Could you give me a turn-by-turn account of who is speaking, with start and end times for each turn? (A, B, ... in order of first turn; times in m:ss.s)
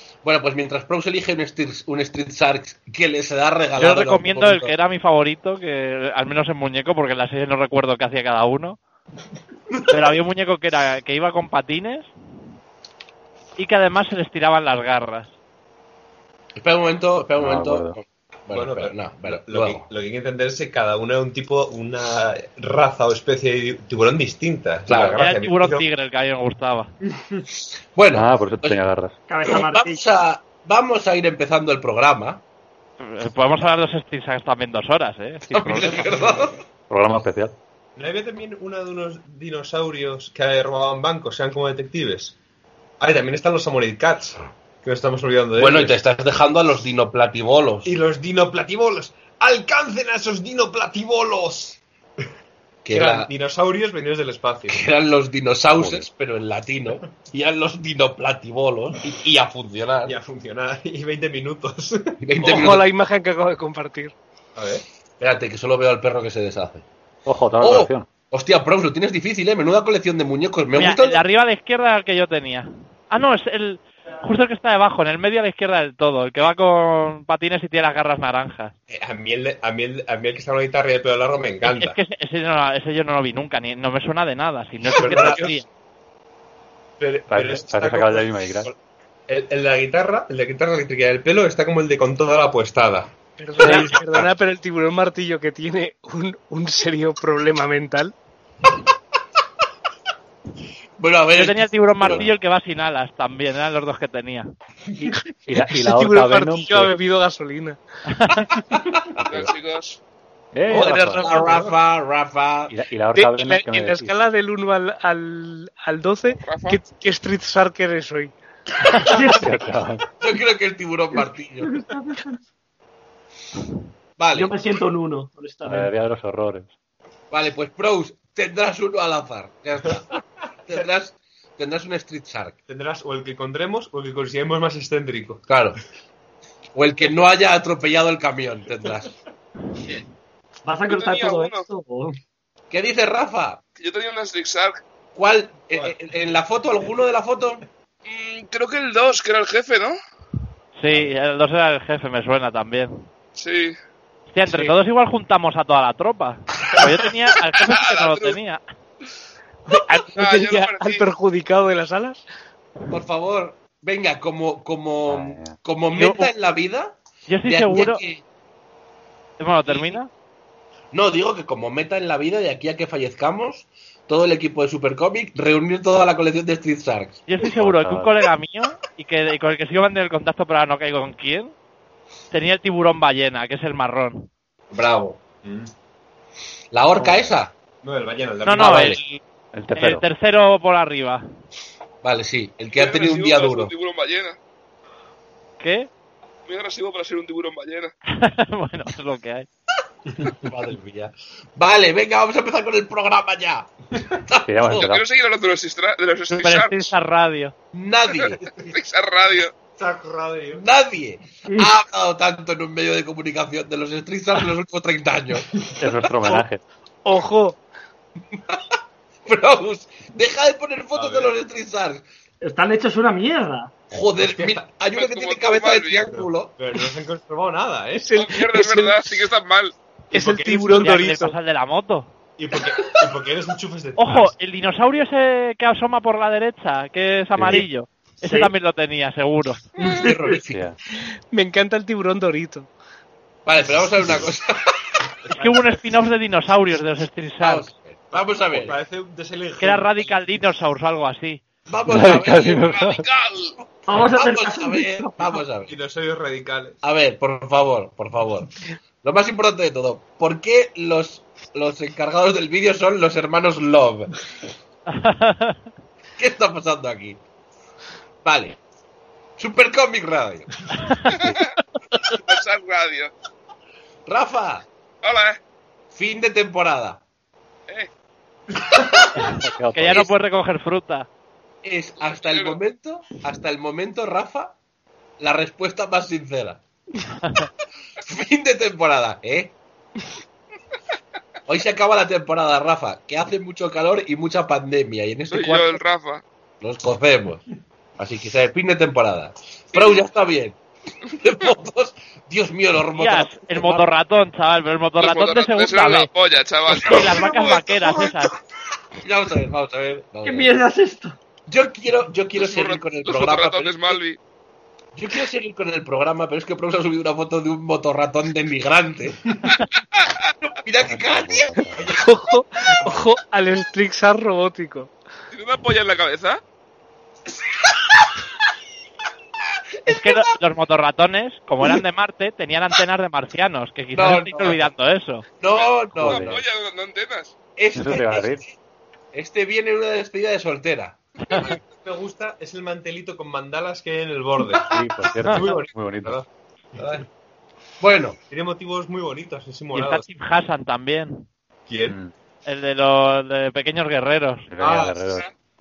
0:00.2-0:04.7 A
0:03.8-0:08.8 B
0:09.9-0:12.1 B
0:13.6-0:15.3 B
0:16.6-0:19.8 A
0:17.4-0:18.0 C
0:18.5-0:25.8 D
0:24.9-0:25.2 A
0:25.2-0:26.9 B
0:28.0-0:28.8 A
0:28.1-0:29.2 C
0:29.3-0:30.0 E
0:29.4-0:32.4 A
0:33.0-0:35.8 B
0:35.5-0:37.6 C
0:35.5-0:36.5 A
0:38.0-0:42.3 D
0:43.0-0:46.0 D
0:45.6-0:47.9 A
0:47.8-0:51.8 D
0:52.8-0:53.3 A
0:52.9-0:54.9 D
0:54.7-1:00.1 A
1:00.1-1:02.1 D
1:02.2-1:02.9 A
1:02.4-1:04.1 F
1:04.6-1:04.8 D
1:05.2-1:06.8 A
1:07.3-1:08.1 C
1:07.6-1:11.2 A
1:10.8-1:18.7 B
1:18.9-1:22.0 D
1:21.8-1:25.7 B
1:24.9-1:25.5 D
1:25.0-1:25.5 F
1:27.0-1:28.8 D
1:27.3-1:28.7 C
1:29.3-1:34.3 D
1:33.4-1:38.1 F
1:41.0-1:42.3 A
1:41.3-1:44.5 B
1:45.5-1:46.9 C
1:45.5-1:47.8 F
1:48.2-1:48.4 B
1:49.2-1:49.5 A
1:49.2-1:49.9 G
1:50.5-1:51.5 C
1:50.7-1:52.7 A
1:50.7-1:51.8 D
1:52.7-1:54.1 C
1:53.2-1:58.4 F
1:56.4-1:56.8 G
1:59.1-1:59.5 E
1:59.2-2:00.0 C
2:00.2-2:01.8 A
2:01.6-2:02.4 E
2:04.2-2:04.6 A
2:04.3-2:05.9 E
2:05.6-2:06.7 C
2:07.3-2:12.6 A
2:12.7-2:15.4 D
2:15.5-2:15.8 A
2:16.8-2:19.1 A
2:20.6-2:22.2 E
2:20.9-2:21.7 G
2:22.7-2:23.6 A
2:23.8-2:24.8 G
2:25.2-2:27.6 A
2:28.1-2:30.0 G
2:30.8-2:33.0 B
2:33.4-2:33.7 G
2:34.3-2:38.6 B
2:37.6-2:38.4 G
2:39.9-2:42.2 F
2:40.1-2:41.1 G
2:42.9-2:48.2 A
2:45.1-2:45.6 C
2:46.0-2:46.3 B
2:47.3-2:48.0 B
2:49.4-2:50.1 B
2:49.7-2:50.0 A
2:50.9-2:57.2 A
2:57.3-3:01.5 B
2:57.4-2:58.1 C
3:02.3-3:04.3 B
3:04.7-3:05.2 A
3:05.4-3:05.7 D
3:06.7-3:07.5 A
3:07.0-3:07.3 C
3:07.8-3:09.0 D
3:08.4-3:09.2 B
3:08.6-3:09.0 A
3:09.5-3:10.0 C
3:09.8-3:11.2 B
3:12.0-3:13.7 A
3:12.7-3:14.4 G
3:15.6-3:15.9 B
3:16.5-3:17.9 G
3:18.1-3:19.5 B
3:20.4-3:24.9 A
3:24.5-3:25.0 C
3:24.8-3:26.8 G
3:26.3-3:27.5 B
3:27.7-3:28.4 A
3:28.4-3:28.8 D
3:28.7-3:29.5 G
3:29.8-3:30.6 D
3:30.6-3:35.5 A
3:31.5-3:31.8 E
3:35.8-3:36.6 C
3:37.0-3:37.6 F
3:38.4-3:38.6 A
3:39.3-3:42.0 A
3:41.0-3:41.3 D
3:42.4-3:43.7 E
3:43.9-3:46.6 A
3:44.2-3:44.6 D
3:45.0-3:46.1 G
3:46.1-3:48.2 D
3:48.0-3:49.1 F
3:48.2-3:49.7 G
3:50.1-3:51.0 D
3:50.1-3:51.4 F
3:50.8-3:52.1 B
3:52.4-3:54.3 D
3:54.0-3:59.6 B
3:57.4-3:57.7 C
3:58.2-3:58.5 E
3:59.8-4:00.6 A
3:59.8-4:00.4 E
4:00.5-4:00.8 C
4:01.3-4:02.7 F
4:03.5-4:04.8 A
4:05.3-4:05.6 D
4:05.3-4:07.7 B
4:07.4-4:08.8 A
4:08.1-4:10.1 D
4:09.6-4:11.4 B
4:11.7-4:12.7 A
4:11.9-4:13.0 C
4:12.6-4:13.6 G
4:13.9-4:15.4 E
4:13.9-4:15.7 A
4:15.7-4:16.8 D
4:16.8-4:24.2 A
4:24.9-4:25.6 B
4:26.2-4:27.2 A
4:28.2-4:28.6 A
4:29.4-4:30.6 A
4:31.1-4:31.5 G
4:32.1-4:33.1 G
4:34.1-4:34.6 A
4:35.0-4:35.4 G
4:35.9-4:37.0 A
4:38.6-4:39.0 D
4:39.2-4:40.1 C
4:39.7-4:41.1 B
4:41.6-4:44.6 A
4:42.2-4:42.6 G
4:45.2-4:46.6 A
4:48.1-4:49.6 A
4:51.5-4:55.8 A
4:55.3-4:56.2 G
4:56.6-4:57.4 A
4:58.0-5:03.8 A
5:03.0-5:06.1 B
5:05.0-5:07.8 G
5:06.7-5:08.3 B
5:09.0-5:10.5 A
5:10.2-5:11.2 E
5:11.5-5:14.0 A
5:12.4-5:14.2 G
5:15.0-5:19.2 A
5:20.5-5:21.5 A
5:20.9-5:21.9 C
5:21.9-5:24.9 F
5:25.3-5:26.4 G
5:29.9-5:35.2 B
5:34.0-5:34.6 A
5:35.4-5:36.4 A
5:35.5-5:37.4 G
5:36.0-5:36.4 C
5:37.6-5:38.5 A
5:37.8-5:38.4 C
5:39.1-5:41.0 A
5:41.3-5:41.6 G
5:41.8-5:46.3 D
5:44.7-5:46.2 C
5:46.8-5:47.0 D
5:47.8-5:48.2 A
5:48.3-5:50.1 D
5:49.7-5:51.2 B
5:51.7-5:52.0 D
5:51.9-5:52.1 C
5:52.5-5:54.5 B
5:54.5-5:55.3 C
5:54.6-5:55.1 D